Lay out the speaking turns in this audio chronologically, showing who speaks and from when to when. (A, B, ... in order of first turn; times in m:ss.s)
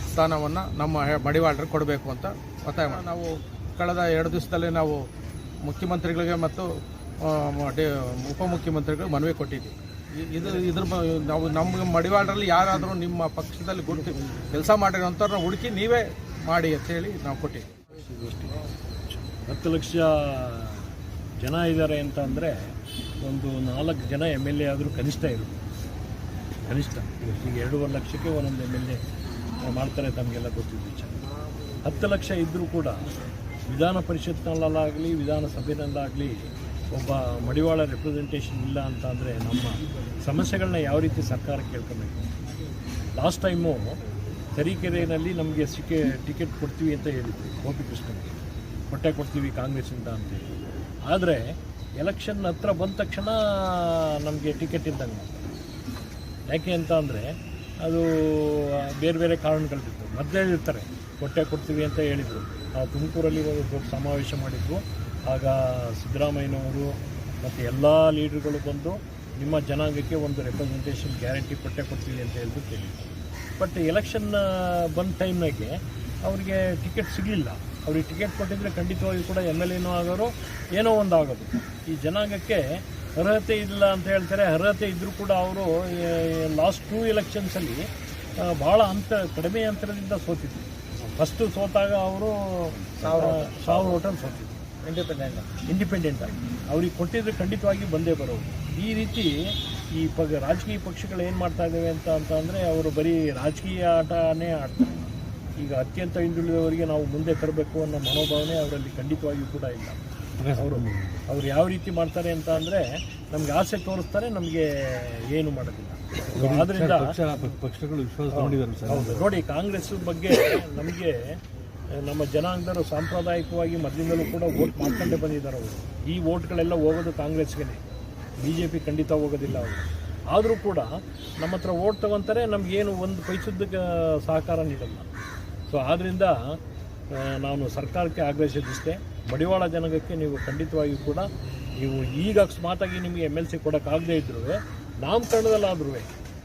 0:00.1-0:05.1 A
0:05.6-0:06.7 A
0:07.2-0:17.8 A
0:17.9-0:25.6 B
0:26.7-0:29.0 B
0:29.6-0:31.2 B
0:31.8-0:33.1 B
0:33.7-0:42.3 B
0:43.2-0:44.0 B
0:44.6-0:50.5 B
0:51.1-0:55.5 B
0:56.5-1:34.6 B
1:33.0-1:33.5 A
1:34.9-1:35.5 A
1:35.6-1:50.0 B
1:50.4-1:51.2 C
1:50.5-1:57.2 B
1:56.3-1:59.3 C
1:58.3-2:01.4 B
2:01.9-2:07.8 B
2:08.4-2:15.1 B
2:15.7-2:16.6 B
2:17.1-2:26.1 B